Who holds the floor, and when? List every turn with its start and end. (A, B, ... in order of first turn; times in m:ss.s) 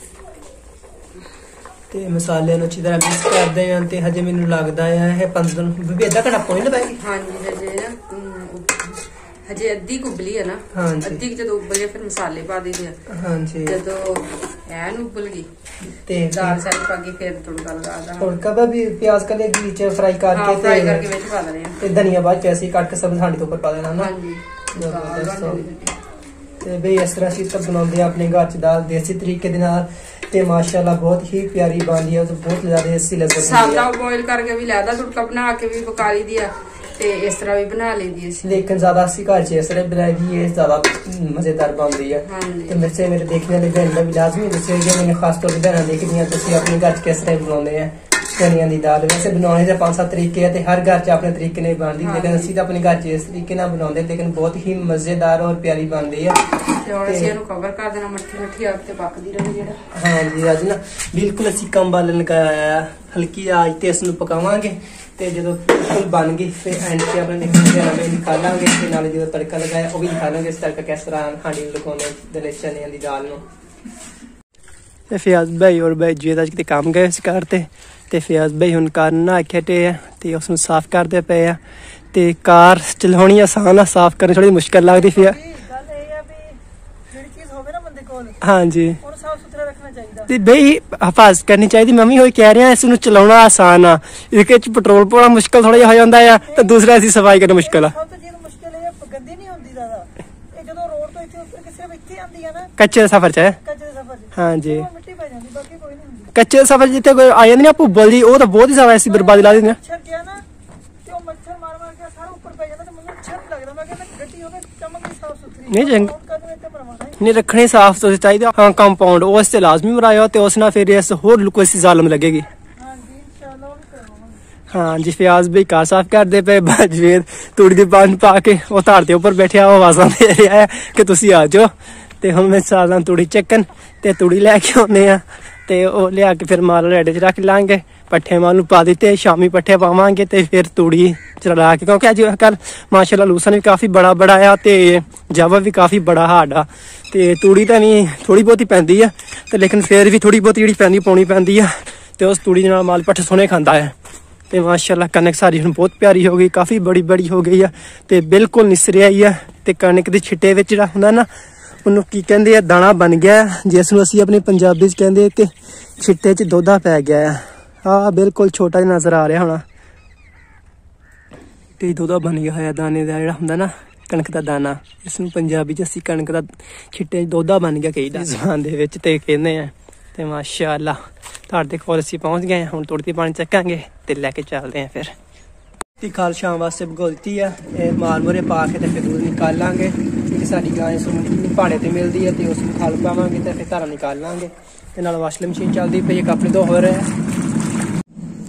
0:01.9-0:07.0 A
0:07.0-0:13.0 B
0:10.7-0:11.2 A
0:13.1-0:13.8 A
0:13.6-0:15.5 B
0:16.0-0:16.6 A
0:16.3-0:18.4 B
0:18.2-0:21.1 A
0:20.3-0:21.8 B
0:21.8-0:24.1 A
0:24.0-0:26.0 B
0:24.7-0:25.6 A
0:26.6-0:33.9 A
0:33.3-0:38.6 B
0:38.4-0:56.4 A
0:42.2-0:42.8 B
0:52.0-0:52.5 B
0:56.8-0:59.9 B
0:57.0-0:57.3 A
0:59.9-1:13.4 A
1:15.1-1:21.6 A
1:22.1-1:25.4 A
1:25.5-1:26.6 C
1:27.1-1:28.3 C
1:28.4-1:29.0 A
1:29.2-1:30.2 C
1:30.2-1:38.0 A
1:38.0-1:42.7 C
1:42.8-1:43.6 A
1:43.9-1:44.2 C
1:44.3-1:44.9 A
1:44.9-1:46.3 C
1:46.3-1:49.8 A
1:49.8-1:50.4 C
1:51.0-1:57.1 C
1:55.7-1:56.1 A
1:57.1-2:02.4 A
2:02.8-2:04.3 C
2:04.7-2:33.9 A
2:34.5-2:41.3 A
2:41.8-2:49.6 A
2:51.8-3:05.1 A
3:06.0-3:17.1 A